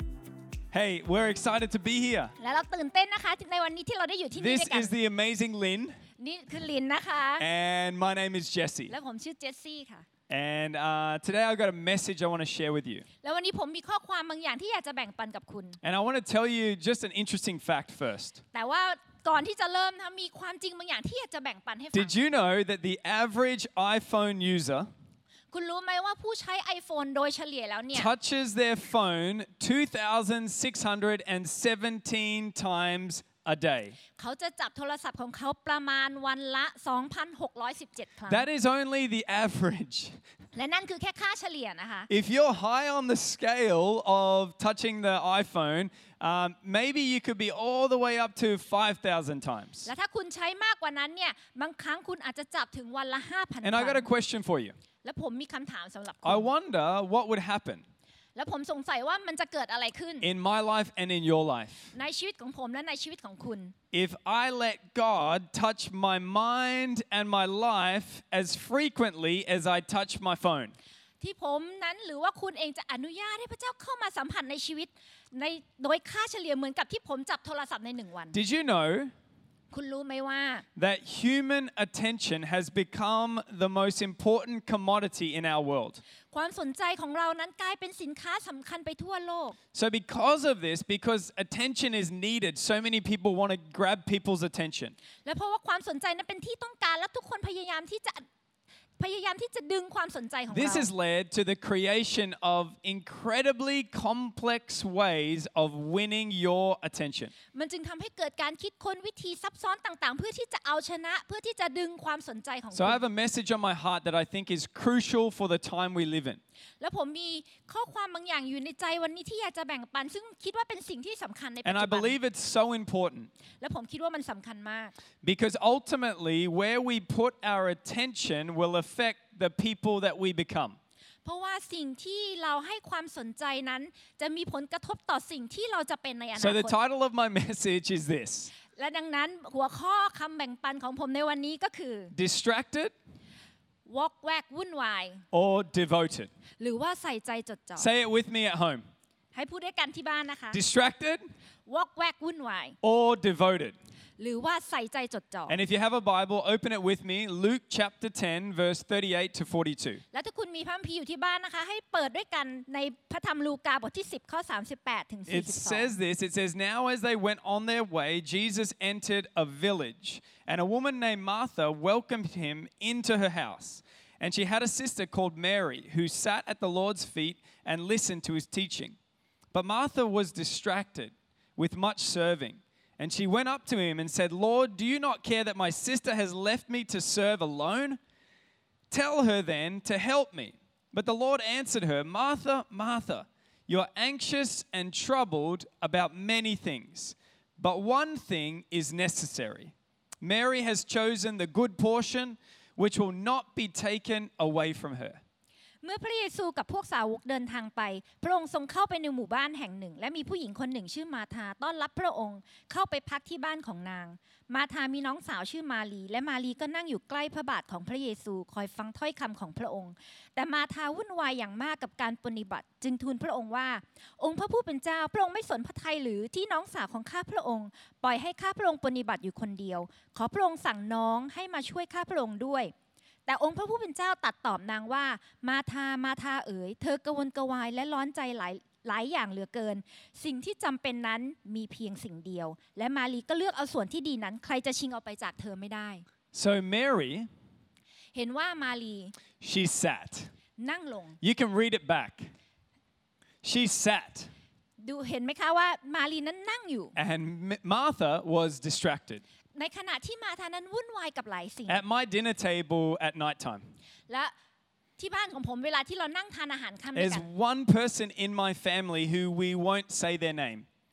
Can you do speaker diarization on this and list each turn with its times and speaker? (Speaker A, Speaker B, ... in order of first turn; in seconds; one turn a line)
Speaker A: 0.7-2.3
Speaker B: 2.4-4.9
Speaker A: 4.4-6.0
Speaker B: 6.2-7.5
Speaker A: 7.4-8.9
Speaker B: 8.9-10.1
Speaker A: 10.3-13.1
Speaker B: 13.2-15.8
Speaker A: 15.8-18.4
Speaker B: 18.5-22.2
Speaker A: 21.9-24.9
Speaker B: 25.5-28.1
Speaker A: 27.9-34.0
Speaker B: 34.2-38.5
Speaker A: 38.3-40.2
Speaker B: 40.5-42.1
Speaker A: 42.1-49.9
Speaker B: 49.9-54.1
Speaker A: 53.6-54.8
Speaker B: 55.0-56.5
Speaker A: 56.2-57.8
Speaker B: 58.4-60.3
Speaker A: 60.2-61.9
Speaker B: 61.9-63.7
Speaker A: 63.9-70.7
Speaker B: 71.2-78.4
Speaker A: 78.3-79.1
Speaker B: 79.7-80.7
Speaker A: 80.8-86.0
Speaker B: 86.3-89.6
Speaker A: 89.7-95.0
Speaker B: 95.2-98.2
Speaker B: 99.0-100.9
Speaker A: 100.5-107.3
Speaker B: 107.5-113.0
Speaker A: 112.7-116.4
Speaker B: 116.8-122.2
Speaker A: 121.6-123.3
Speaker B: 123.6-125.0
Speaker A: 125.2-130.8
Speaker B: 131.2-136.8
Speaker A: 136.4-138.5
Speaker B: 138.7-142.1
Speaker A: 142.1-142.9
Speaker B: 143.9-145.2
Speaker A: 145.3-146.3
Speaker B: 146.6-147.9
Speaker A: 147.8-148.8
Speaker B: 149.3-150.6
Speaker A: 150.5-151.2
Speaker B: 151.7-152.8
Speaker A: 152.8-153.8
Speaker B: 154.2-155.6
Speaker A: 155.5-160.0
Speaker B: 160.1-165.9
Speaker A: 165.3-179.0
Speaker A: 179.5-188.0
Speaker A: 188.9-205.2
Speaker B: 205.8-232.7
Speaker B: 233.3-246.0
Speaker A: 246.3-247.3
Speaker B: 248.1-249.1
Speaker A: 249.4-250.3
Speaker B: 250.6-251.2
Speaker A: 251.2-252.3
Speaker A: 253.4-254.3
Speaker B: 254.8-257.0
Speaker A: 256.9-259.2
Speaker B: 259.6-261.8
Speaker A: 261.7-263.6
Speaker B: 265.0-267.3
Speaker A: 266.9-270.7